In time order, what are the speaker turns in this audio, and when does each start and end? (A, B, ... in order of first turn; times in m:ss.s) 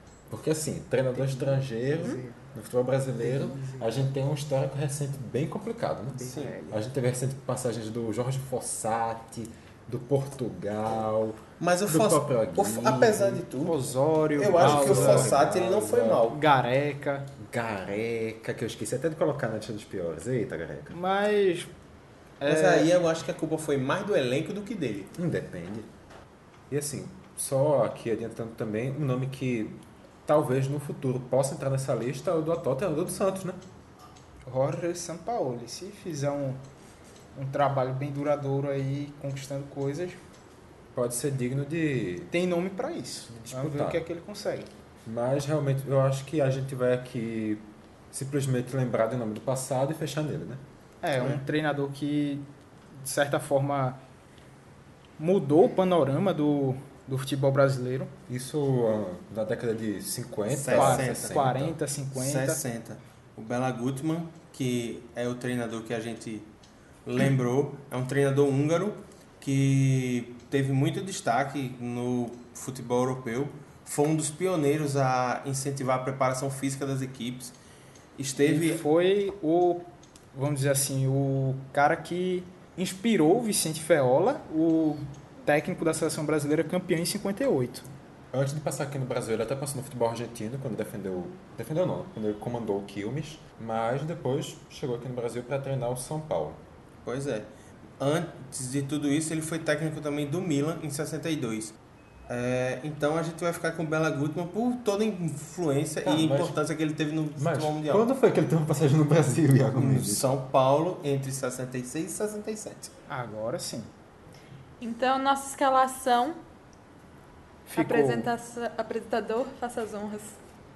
0:00.3-0:13.4 A
0:01.2-0:02.4 B
0:03.2-0:04.1 B
0:06.1-0:06.8 B
0:11.6-0:13.8 C
0:13.6-0:15.4 B
0:14.4-0:16.4 C
0:14.5-0:16.2 A
0:16.2-0:17.3 B
0:17.4-0:21.0 A
0:20.9-0:21.7 B
0:22.4-0:22.9 B
0:22.4-0:25.1 C
0:25.2-0:25.9 A
0:26.7-0:33.6 A
0:34.5-0:36.6 B
0:37.4-0:40.2 B
0:40.9-0:42.3 A
0:42.3-0:44.7 B
0:43.3-0:44.0 A
0:45.0-0:50.6 A
0:51.0-0:52.5 B
0:53.0-0:54.0 B
0:55.2-0:58.1 B
0:58.3-1:01.8 A
1:00.5-1:01.4 C
1:00.7-1:02.6 B
1:02.2-1:06.5 C
1:07.0-1:17.6 C
1:18.2-1:18.8 C
1:18.4-1:27.9 B
1:28.3-1:36.6 A
1:37.0-1:41.8 C
1:42.3-1:48.0 C
1:46.0-1:46.6 A
1:47.4-1:50.3 A
1:49.8-1:52.9 C
1:53.1-1:53.9 B
1:54.8-1:56.4 D
1:57.7-1:58.3 B
1:57.8-2:00.4 D